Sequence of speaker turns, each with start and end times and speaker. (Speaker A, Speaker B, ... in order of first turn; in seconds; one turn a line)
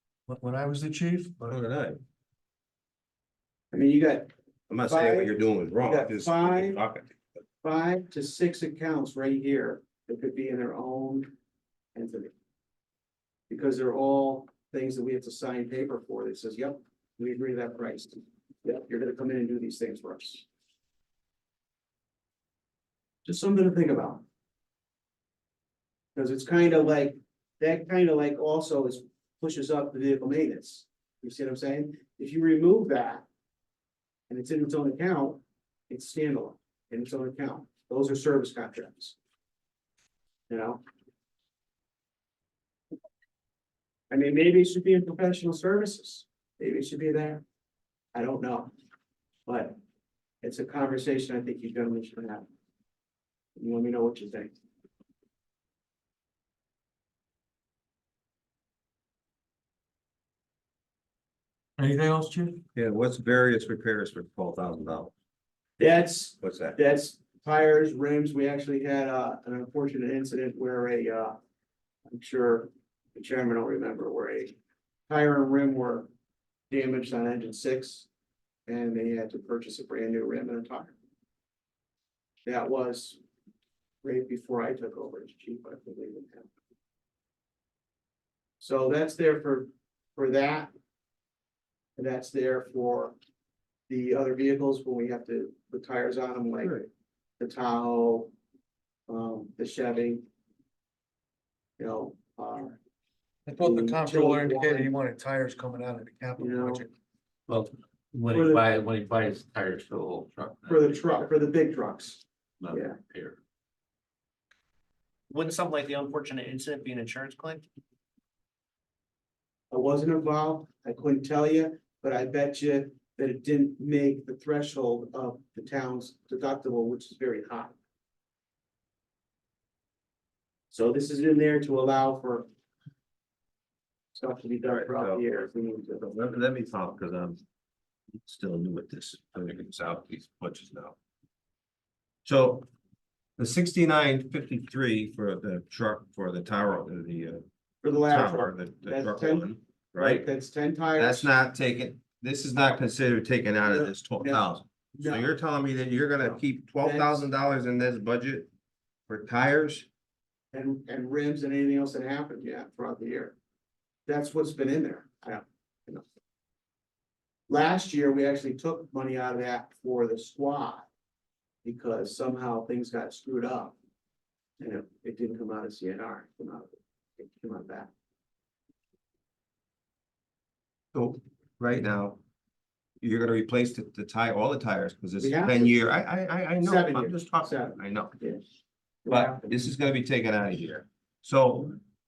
Speaker A: 0.3-1.4
Speaker B: 1.4-2.0
Speaker C: 3.7-4.3
Speaker B: 4.7-7.2
Speaker C: 4.9-5.3
Speaker C: 5.8-6.8
Speaker C: 7.6-11.3
Speaker C: 11.9-12.3
Speaker C: 13.5-20.5
Speaker C: 23.2-24.2
Speaker C: 26.1-33.3
Speaker C: 34.3-39.2
Speaker C: 40.5-40.8
Speaker C: 44.1-47.4
Speaker C: 48.1-48.7
Speaker C: 49.5-49.8
Speaker C: 50.4-52.5
Speaker C: 53.6-54.6
Speaker A: 61.8-62.6
Speaker B: 62.8-65.1
Speaker C: 65.8-71.4
Speaker B: 66.4-66.8
Speaker C: 72.1-74.6
Speaker C: 75.1-76.1
Speaker C: 76.7-78.1
Speaker C: 78.7-81.0
Speaker C: 82.5-83.2
Speaker C: 84.0-86.5
Speaker C: 88.6-90.7
Speaker C: 92.0-93.2
Speaker C: 93.9-96.8
Speaker B: 96.6-96.9
Speaker C: 97.4-98.3
Speaker C: 99.1-100.2
Speaker C: 101.8-102.8
Speaker A: 103.5-106.9
Speaker C: 103.6-104.9
Speaker C: 106.4-106.9
Speaker D: 107.5-110.9
Speaker C: 108.3-108.6
Speaker C: 110.7-113.0
Speaker D: 112.6-113.4
Speaker E: 115.3-117.7
Speaker C: 119.7-127.8
Speaker C: 130.7-132.5
Speaker C: 134.1-136.1
Speaker B: 134.7-135.4
Speaker B: 136.0-137.4
Speaker B: 138.2-141.0
Speaker B: 142.2-142.7
Speaker B: 143.4-147.4
Speaker C: 147.8-151.3
Speaker B: 148.1-150.3
Speaker B: 151.0-158.5
Speaker C: 153.7-155.3
Speaker C: 156.2-157.3
Speaker B: 159.1-159.9
Speaker C: 160.5-163.4
Speaker C: 164.1-166.1
Speaker C: 167.5-170.9
Speaker C: 171.6-173.8
Speaker C: 174.6-177.9
Speaker B: 180.9-182.2
Speaker B: 183.0-188.2
Speaker C: 185.2-185.8
Speaker C: 186.6-188.4
Speaker C: 189.1-189.6
Speaker B: 189.1-191.8